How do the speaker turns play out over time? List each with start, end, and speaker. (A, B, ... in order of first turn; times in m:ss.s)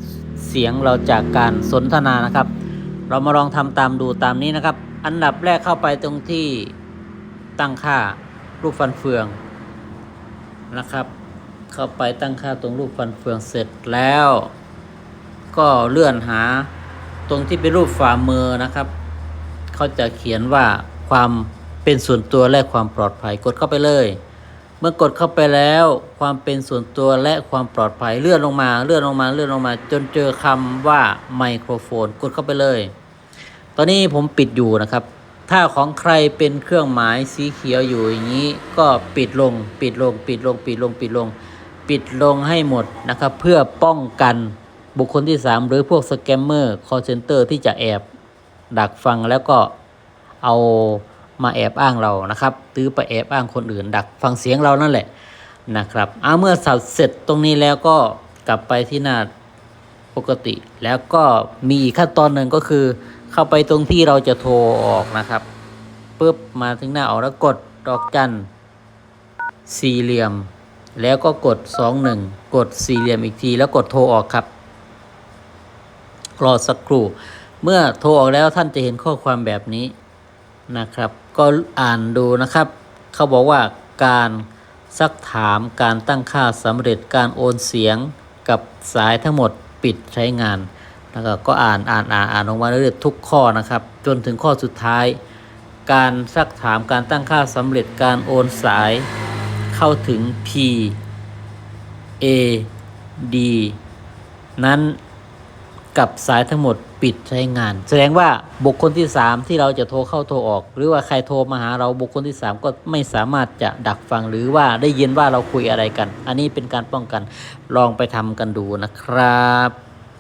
0:00.4-0:02.5 A
0:03.1-0:06.8 A
0:07.6-0:09.4 A
0:10.7-0:11.1 A
0:11.7-0:14.5 A
0:15.5-0:16.7 A
0:17.3-0:18.9 A
0:19.7-0:24.2 A
0:24.8-0:32.9 A
0:33.8-0:41.3 A
0:41.9-0:48.0 A
0:48.7-0:49.7 A
0:50.4-0:55.1 A
0:55.7-0:59.3 A
1:00.2-1:05.4 A
1:06.2-1:08.5 A
1:09.7-1:14.5 A
1:16.4-1:19.9 A
1:20.7-1:35.2 A
1:35.9-1:39.1 A
1:39.7-1:41.0 A
1:42.2-1:42.7 A
1:43.2-1:43.8 A
1:44.6-1:45.0 A
1:46.0-1:59.8 A